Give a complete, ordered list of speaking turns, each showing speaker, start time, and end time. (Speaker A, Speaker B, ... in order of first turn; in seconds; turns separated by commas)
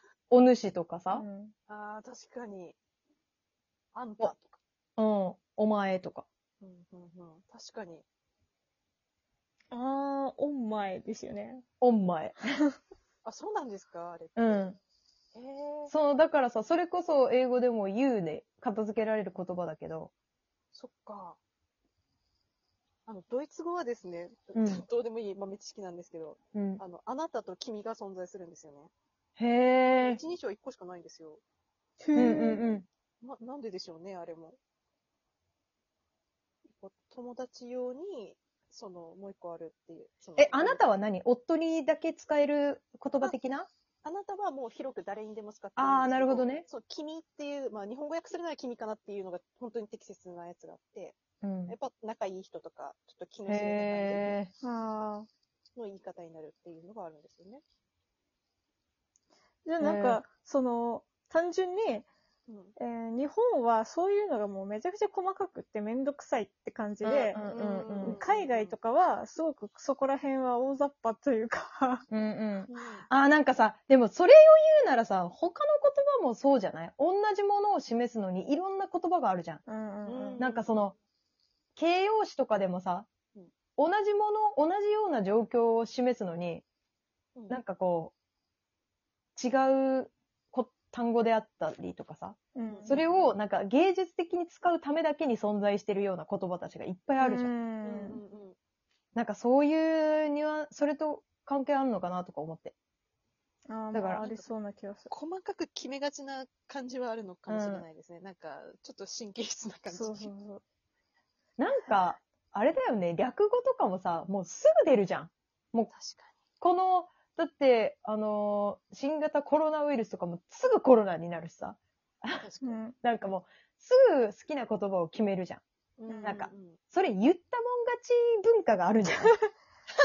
Speaker A: 0.3-1.2, Speaker B: 1.1-1.5, Speaker C: 1.7-2.8, Speaker C: 3.9-4.6, Speaker A: 5.0-6.3, Speaker C: 6.6-8.1, Speaker B: 9.7-11.7, Speaker A: 11.8-12.4, Speaker C: 13.2-14.7, Speaker A: 14.4-14.8, Speaker C: 15.3-15.9, Speaker A: 15.9-20.1, Speaker C: 20.7-21.4, Speaker C: 23.1-28.9, Speaker A: 24.6-24.8, Speaker A: 26.5-26.8, Speaker A: 29.4-30.2, Speaker C: 30.0-31.4, Speaker B: 32.0-32.8, Speaker A: 32.2-32.9, Speaker C: 33.2-34.6, Speaker C: 36.6-40.9, Speaker A: 40.4-43.7, Speaker C: 44.0-51.2, Speaker A: 45.8-46.7, Speaker A: 51.4-51.8, Speaker C: 51.7-54.4, Speaker A: 53.5-54.5, Speaker B: 54.6-55.3, Speaker C: 55.8-57.6, Speaker B: 59.6-62.1, Speaker A: 59.8-60.2, Speaker C: 62.5-62.8, Speaker B: 62.8-72.1, Speaker A: 67.0-68.2, Speaker C: 67.4-68.8, Speaker A: 72.1-79.6, Speaker C: 72.7-73.1, Speaker B: 79.7-80.5, Speaker C: 80.0-80.6, Speaker A: 80.4-81.0, Speaker A: 81.8-83.1, Speaker A: 83.8-86.7, Speaker A: 87.5-88.1, Speaker A: 89.4-97.5, Speaker B: 92.5-93.0, Speaker C: 92.7-93.2, Speaker B: 97.2-98.2, Speaker C: 97.8-98.6, Speaker A: 99.2-102.7, Speaker B: 103.7-105.1, Speaker A: 103.9-104.2, Speaker C: 104.2-104.4, Speaker C: 105.1-110.3, Speaker A: 107.5-107.8, Speaker B: 109.9-110.6, Speaker A: 111.6-115.9, Speaker C: 115.9-116.3, Speaker A: 116.6-122.4, Speaker C: 122.4-122.8, Speaker B: 122.6-123.0, Speaker A: 123.0-125.6, Speaker C: 126.0-126.8, Speaker B: 126.1-126.4, Speaker A: 126.2-129.3